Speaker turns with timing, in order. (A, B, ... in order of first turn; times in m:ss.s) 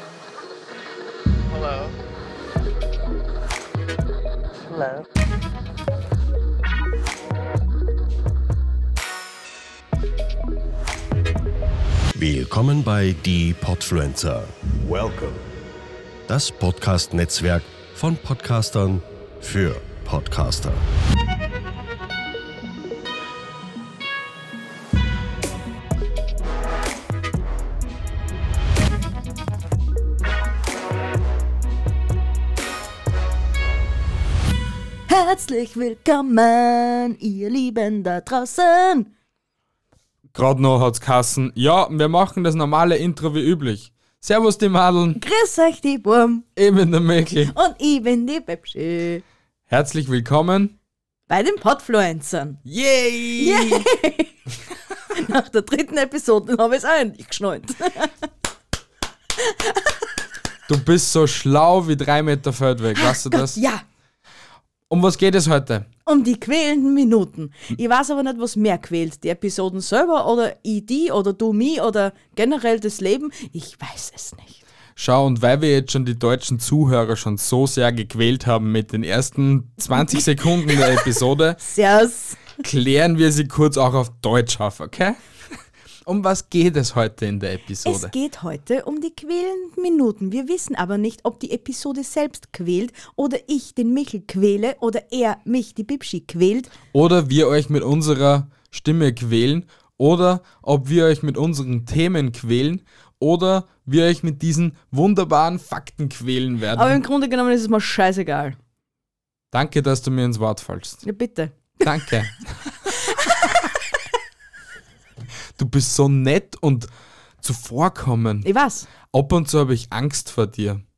0:12.2-0:15.4 A
0:16.3-0:20.8 A
0:35.1-0:39.1 B
0:40.3-0:45.2 C
0:45.2-0:46.4 B
0:46.6-0:47.5 C
0:47.5-0:49.2 B
0:49.7-0:50.7 C
0:51.3-0:52.6 B
0:52.6-0:53.8 C
0:53.4-0:54.4 B
0:55.1-0:58.2 B
0:59.4-1:00.0 B
1:00.7-1:03.6 C
1:02.9-1:03.8 B
1:04.9-1:05.9 C
1:06.0-1:14.6 B
1:15.0-1:21.6 C
1:20.1-1:21.0 B
1:21.6-1:22.4 B
1:22.6-1:25.2 C
1:26.0-1:28.1 C
1:27.8-1:36.7 B
1:36.9-1:47.0 C
1:46.7-1:48.6 B
1:49.5-1:51.0 C
1:51.0-1:51.9 B
1:51.8-1:52.9 C
1:53.1-1:53.6 B
1:55.6-1:56.9 C
1:57.4-1:58.5 C
1:58.4-1:58.9 B
1:59.0-2:00.8 C